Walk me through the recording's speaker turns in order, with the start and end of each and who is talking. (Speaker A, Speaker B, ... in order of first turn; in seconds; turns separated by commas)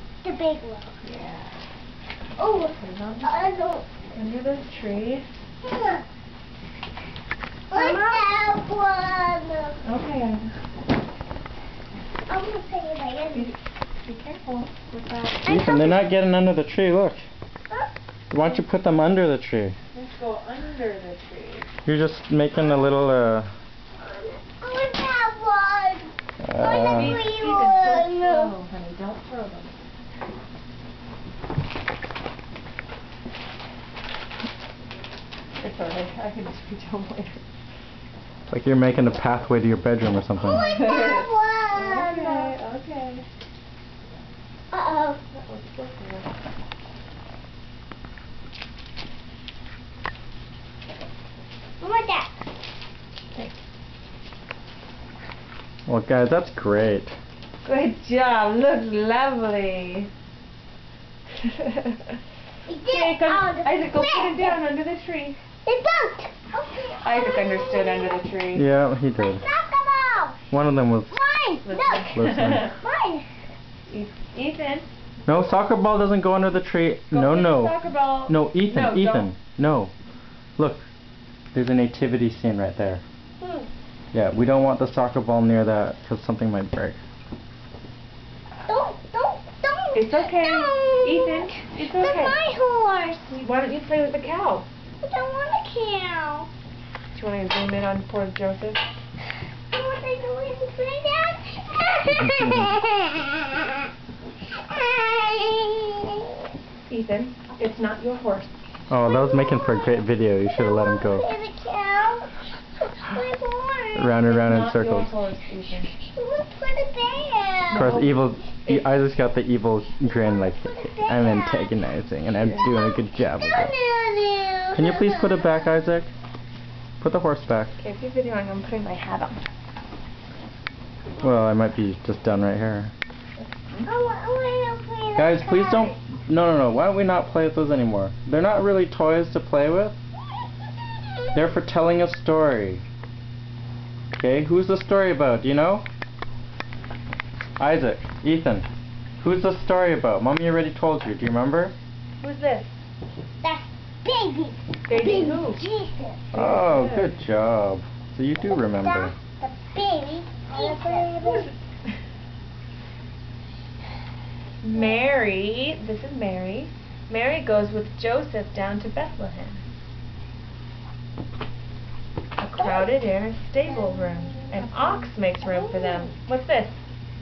Speaker A: 0.2-1.0, Speaker B: 1.0-1.6, Speaker A: 2.4-3.9, Speaker B: 2.8-3.6, Speaker B: 4.1-5.2, Speaker A: 5.6-6.0, Speaker A: 7.7-9.8, Speaker B: 7.7-8.3, Speaker B: 9.8-10.5, Speaker A: 12.3-13.5, Speaker B: 13.3-15.4, Speaker A: 15.4-16.1, Speaker C: 15.4-17.2, Speaker C: 18.3-19.8, Speaker B: 19.9-21.7, Speaker C: 21.9-23.5, Speaker A: 24.0-28.6, Speaker C: 26.4-27.2, Speaker B: 26.8-29.8, Speaker B: 35.6-37.4, Speaker C: 38.5-40.7, Speaker B: 40.4-43.2, Speaker A: 40.6-42.5, Speaker A: 44.7-45.2, Speaker B: 45.3-46.3, Speaker A: 51.8-52.3, Speaker B: 53.3-53.6, Speaker C: 55.9-57.1, Speaker B: 57.6-60.1, Speaker B: 61.4-62.1, Speaker A: 62.7-64.6, Speaker B: 62.9-65.4, Speaker A: 65.7-68.2, Speaker B: 67.0-68.7, Speaker C: 68.5-69.5, Speaker A: 69.2-70.4, Speaker C: 70.5-71.1, Speaker A: 71.1-73.2, Speaker B: 71.6-72.7, Speaker C: 72.2-72.7, Speaker B: 73.9-74.9, Speaker C: 75.3-79.9, Speaker B: 77.1-79.3, Speaker C: 80.6-80.9, Speaker C: 81.5-83.0, Speaker B: 83.4-83.7, Speaker C: 84.1-87.0, Speaker A: 88.7-93.4, Speaker B: 89.9-92.4, Speaker B: 93.3-94.7, Speaker A: 95.0-96.5, Speaker B: 97.1-98.8, Speaker A: 99.7-103.6, Speaker C: 102.1-102.8, Speaker A: 104.7-106.2, Speaker B: 106.9-108.5, Speaker C: 108.9-111.3, Speaker A: 109.0-112.3, Speaker A: 113.0-114.2, Speaker C: 114.0-115.1, Speaker B: 114.2-115.9, Speaker A: 116.0-117.9, Speaker B: 117.7-119.0, Speaker C: 117.7-123.7, Speaker A: 120.0-121.7, Speaker B: 122.4-122.6, Speaker A: 122.7-125.6, Speaker C: 124.7-126.1, Speaker C: 127.0-127.8, Speaker B: 127.8-129.4, Speaker C: 131.2-132.9, Speaker B: 133.4-133.9, Speaker A: 133.8-136.0, Speaker C: 135.2-140.0, Speaker C: 141.3-142.8, Speaker C: 144.2-145.8, Speaker C: 147.6-148.7, Speaker C: 149.2-151.8, Speaker B: 152.2-152.7, Speaker A: 153.4-156.3, Speaker B: 154.9-155.6, Speaker B: 156.3-157.1, Speaker C: 156.3-159.1, Speaker A: 158.5-161.5, Speaker B: 160.5-161.5, Speaker B: 164.6-169.6, Speaker B: 172.4-176.8, Speaker A: 172.6-172.9, Speaker A: 173.7-176.1